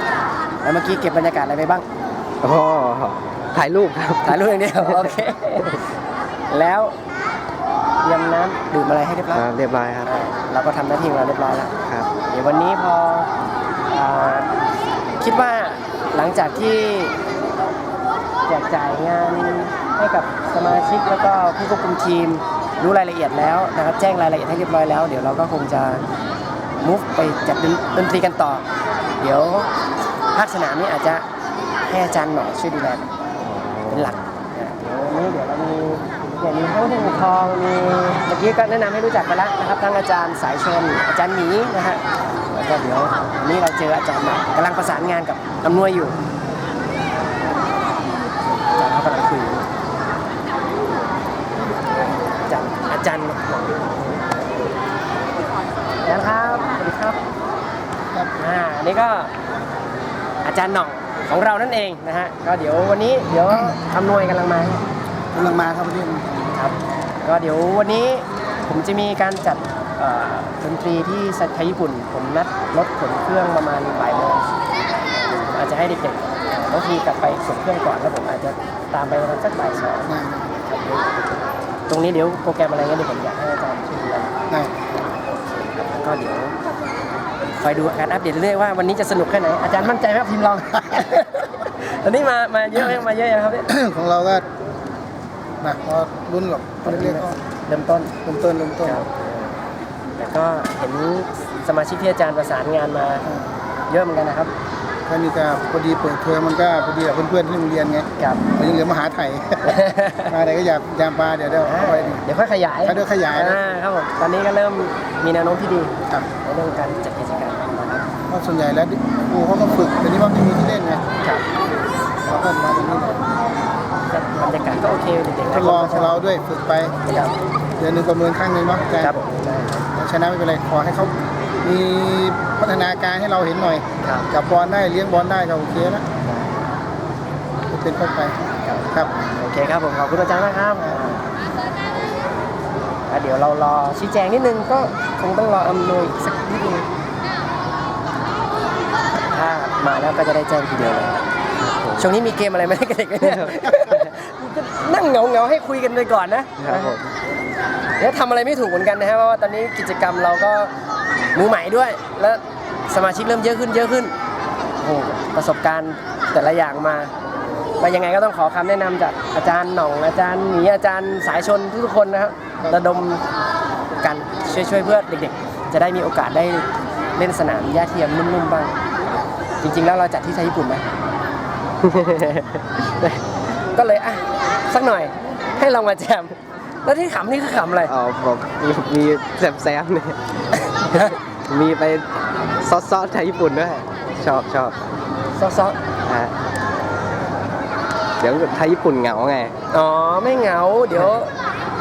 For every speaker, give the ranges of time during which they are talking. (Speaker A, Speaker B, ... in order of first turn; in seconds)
Speaker A: 0.6-1.8, 4.2-5.8, 6.5-7.0, 8.0-9.5, 10.0-11.8, 12.3-13.3, 13.9-14.5, 15.2-17.1, 18.5-26.0, 26.8-28.6, 29.2-29.7, 30.3-31.2, 31.8-33.0, 33.9-46.2, 48.7-49.7, 52.4-54.3, 56.0-57.2, 58.4-59.3, 60.4-64.8, 66.5-74.5, 75.1-81.3, 81.9-84.4, 85.3-86.5, 87.5-93.7, 96.8-98.2, 98.8-99.5, 100.2-103.2, 103.9-104.5, 108.2-108.4, 109.6-110.3, 111.6-118.1, 124.1-126.3, 127.0-127.3, 129.0-129.9, 134.0-134.3, 136.2-136.6, 138.6-141.2, 143.1-146.9, 149.2-151.2, 151.9-156.9, 158.0-160.7, 161.3-164.1, 164.8-167.1, 167.8-173.2, 174.0-178.7, 179.6-180.8, 181.9-182.5, 183.0-187.9, 190.6-191.2, 195.3-195.8, 199.7-201.3
Speaker B: 2.4-5.7, 9.3-10.1, 11.8-12.1, 33.4-34.3, 151.6-152.1, 153.2-154.0, 156.6-157.1, 187.8-190.2, 190.8-194.8, 196.0-196.3, 198.2-199.5
Speaker C: 65.3-66.4, 80.1-80.5, 93.7-94.5, 95.6-97.4, 98.2-99.0, 105.1-112.2, 112.8-113.6, 118.3-121.0, 122.2-123.2, 125.5-126.9, 127.8-129.2, 129.9-136.1, 137.7-139.1